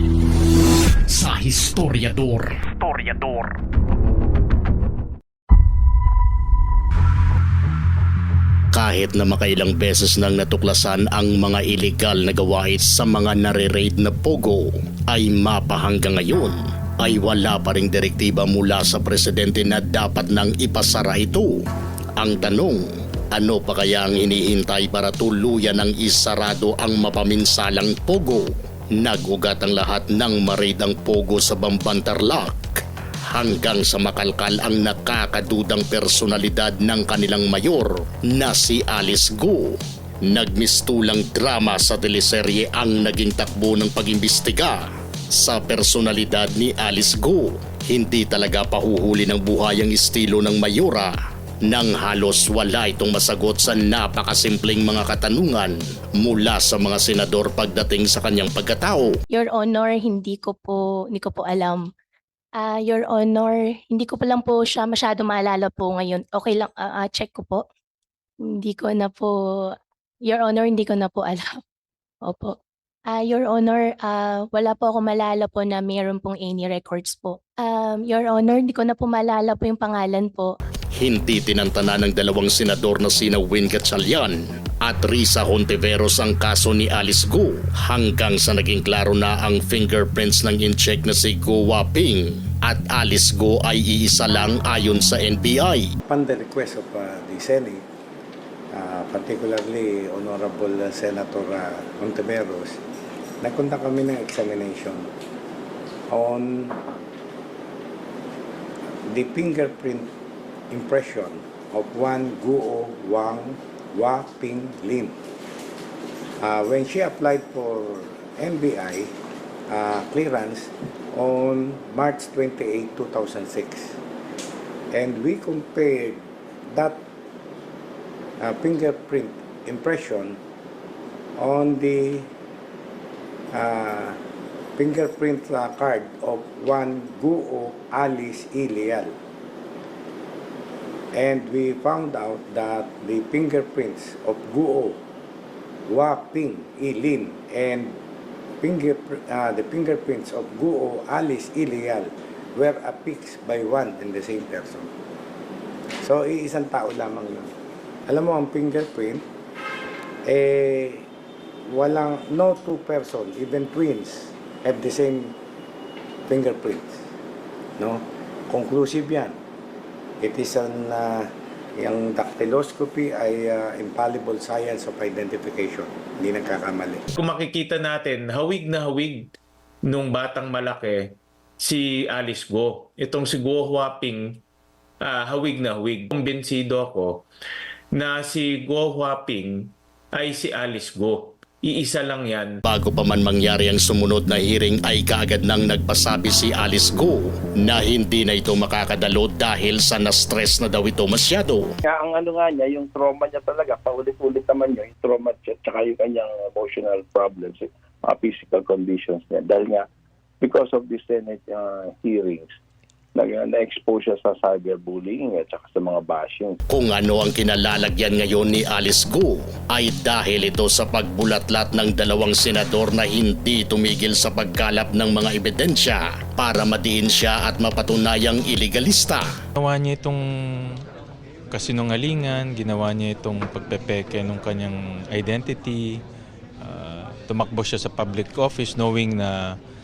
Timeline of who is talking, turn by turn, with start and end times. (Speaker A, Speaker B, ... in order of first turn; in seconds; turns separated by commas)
Speaker A: 1.1-3.5, Speaker A: 8.7-21.6, Speaker A: 22.2-32.6, Speaker A: 33.3-51.1, Speaker A: 51.7-59.2, Speaker B: 59.3-61.8, Speaker B: 62.6-67.6, Speaker B: 68.5-69.3, Speaker B: 70.3-71.5, Speaker B: 72.2-72.5, Speaker B: 73.1-80.5, Speaker A: 81.0-95.9, Speaker C: 96.1-97.8, Speaker C: 98.7-102.8, Speaker C: 103.4-105.1, Speaker C: 106.1-106.8, Speaker C: 109.1-110.1, Speaker C: 110.7-115.2, Speaker C: 116.4-119.1, Speaker C: 119.7-124.0, Speaker C: 124.9-126.2, Speaker C: 126.8-127.0, Speaker C: 128.4-130.4, Speaker C: 131.4-132.3, Speaker C: 133.5-134.2, Speaker C: 134.8-139.1, Speaker C: 141.2-145.0, Speaker C: 145.9-148.0, Speaker C: 148.6-154.9, Speaker C: 156.0-157.5, Speaker C: 158.1-159.3, Speaker C: 160.3-161.1, Speaker C: 161.7-165.4, Speaker C: 166.3-167.0, Speaker C: 167.8-169.4, Speaker C: 170.2-177.0, Speaker D: 177.4-179.2, Speaker D: 180.0-181.0, Speaker D: 182.1-184.2, Speaker D: 185.2-187.1, Speaker D: 188.2-189.5, Speaker D: 190.2-191.2, Speaker D: 191.7-192.5, Speaker A: 192.7-201.7, Speaker E: 201.9-209.9, Speaker E: 210.4-212.5, Speaker E: 213.2-216.6, Speaker A: 216.7-229.3, Speaker F: 229.6-230.2, Speaker F: 231.5-236.0, Speaker F: 236.6-239.6